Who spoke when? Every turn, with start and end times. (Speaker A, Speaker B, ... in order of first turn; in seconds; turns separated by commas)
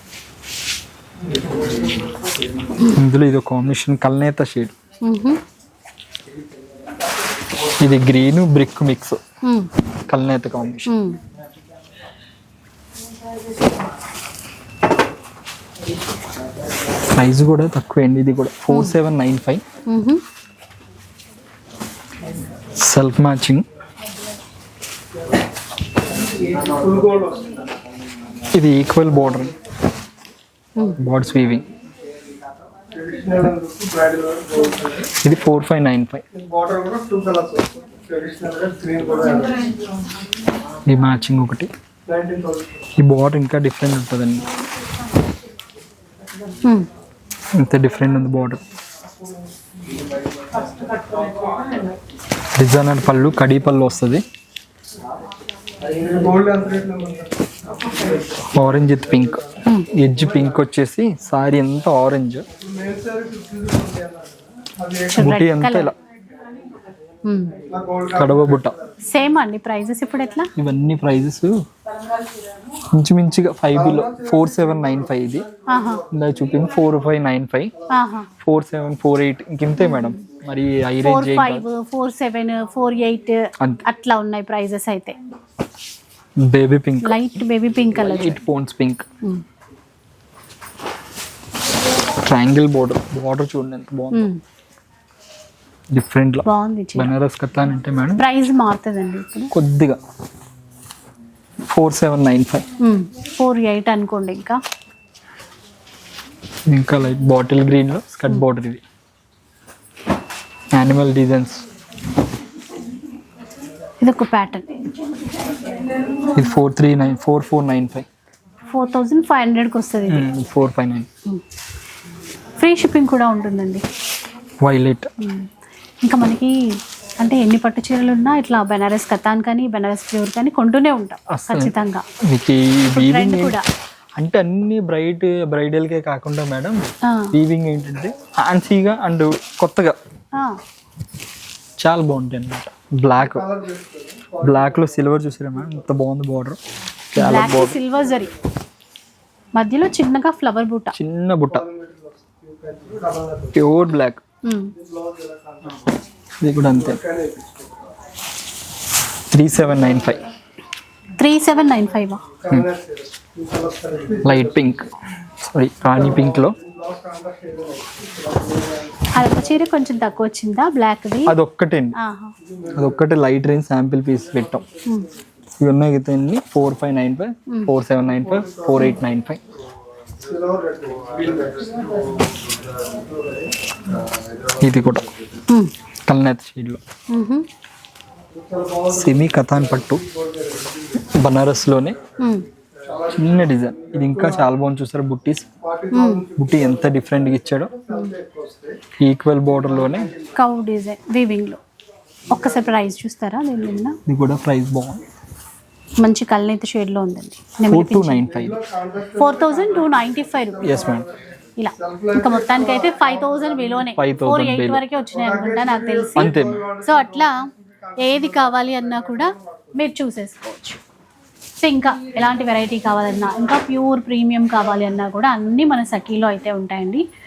Speaker A: 2.8-4.7, Speaker B: 5.0-5.4, Speaker A: 7.6-9.2, Speaker B: 9.4-9.7, Speaker A: 10.1-10.9, Speaker B: 10.9-11.2, Speaker A: 17.1-19.6, Speaker B: 18.7-18.9, Speaker B: 19.9-20.2, Speaker A: 22.7-23.6, Speaker C: 26.2-27.6, Speaker A: 28.5-29.6, Speaker A: 30.9-31.7, Speaker C: 32.9-35.1, Speaker A: 35.2-36.2, Speaker C: 36.3-39.7, Speaker A: 40.9-41.7, Speaker C: 42.1-42.8, Speaker A: 43.0-44.5, Speaker B: 46.6-46.9, Speaker A: 47.5-48.6, Speaker A: 52.6-54.2, Speaker C: 55.8-58.3, Speaker A: 58.1-62.5, Speaker B: 59.6-59.9, Speaker C: 62.5-65.3, Speaker B: 65.1-65.9, Speaker A: 65.2-65.9, Speaker B: 67.2-67.7, Speaker C: 67.6-69.0, Speaker A: 68.1-68.7, Speaker B: 69.0-70.5, Speaker A: 70.6-71.6, Speaker A: 72.8-75.5, Speaker C: 73.7-76.9, Speaker B: 75.7-76.0, Speaker A: 76.1-77.7, Speaker B: 77.9-78.3, Speaker A: 78.4-81.7, Speaker B: 79.8-80.2, Speaker B: 81.0-85.2, Speaker A: 86.4-87.2, Speaker B: 87.0-88.4, Speaker A: 87.9-89.0, Speaker A: 92.0-94.3, Speaker B: 94.1-94.4, Speaker A: 95.9-98.2, Speaker B: 96.4-97.1, Speaker B: 98.2-99.5, Speaker A: 99.5-100.0, Speaker A: 101.7-102.6, Speaker B: 102.8-104.6, Speaker A: 106.7-108.8, Speaker A: 110.7-111.6, Speaker B: 114.0-114.9, Speaker A: 116.2-118.0, Speaker B: 118.7-120.3, Speaker A: 120.1-121.1, Speaker B: 122.6-123.8, Speaker A: 124.6-125.1, Speaker B: 125.2-125.5, Speaker B: 126.0-132.0, Speaker A: 131.3-133.6, Speaker B: 132.9-133.6, Speaker A: 134.2-139.9, Speaker B: 137.0-137.3, Speaker A: 141.8-143.4, Speaker C: 143.3-145.0, Speaker A: 144.4-146.6, Speaker A: 147.1-147.8, Speaker B: 147.2-148.3, Speaker B: 149.5-150.9, Speaker A: 150.9-151.6, Speaker C: 151.5-153.6, Speaker A: 153.5-154.2, Speaker B: 154.4-154.7, Speaker C: 154.8-155.9, Speaker A: 156.4-157.0, Speaker C: 156.7-157.8, Speaker A: 159.3-160.2, Speaker B: 161.2-162.2, Speaker C: 162.4-164.6, Speaker A: 164.2-166.6, Speaker C: 165.8-169.2, Speaker B: 169.1-171.4, Speaker A: 171.2-172.0, Speaker B: 172.0-172.3, Speaker C: 172.4-172.9, Speaker A: 172.7-174.6, Speaker C: 174.6-174.8, Speaker A: 175.6-179.4, Speaker C: 180.2-182.2, Speaker C: 182.8-183.5, Speaker A: 184.6-185.1, Speaker A: 186.1-186.8, Speaker B: 187.1-187.4, Speaker C: 188.3-191.1, Speaker A: 188.9-190.0, Speaker A: 191.0-192.0, Speaker B: 192.2-192.5, Speaker C: 192.8-194.4, Speaker A: 193.1-195.5, Speaker C: 195.6-198.8, Speaker B: 195.9-196.3, Speaker A: 196.3-197.7, Speaker A: 199.0-200.1, Speaker C: 199.8-200.3, Speaker B: 200.3-201.6, Speaker B: 202.3-204.0, Speaker A: 204.1-205.0, Speaker B: 206.0-208.4, Speaker A: 207.7-208.6, Speaker C: 208.3-211.2, Speaker B: 209.2-210.9, Speaker A: 210.6-211.1, Speaker B: 211.6-220.8, Speaker C: 211.7-213.8, Speaker A: 213.9-214.8, Speaker C: 215.1-217.4, Speaker A: 216.2-216.6, Speaker C: 217.9-219.7, Speaker B: 221.6-227.0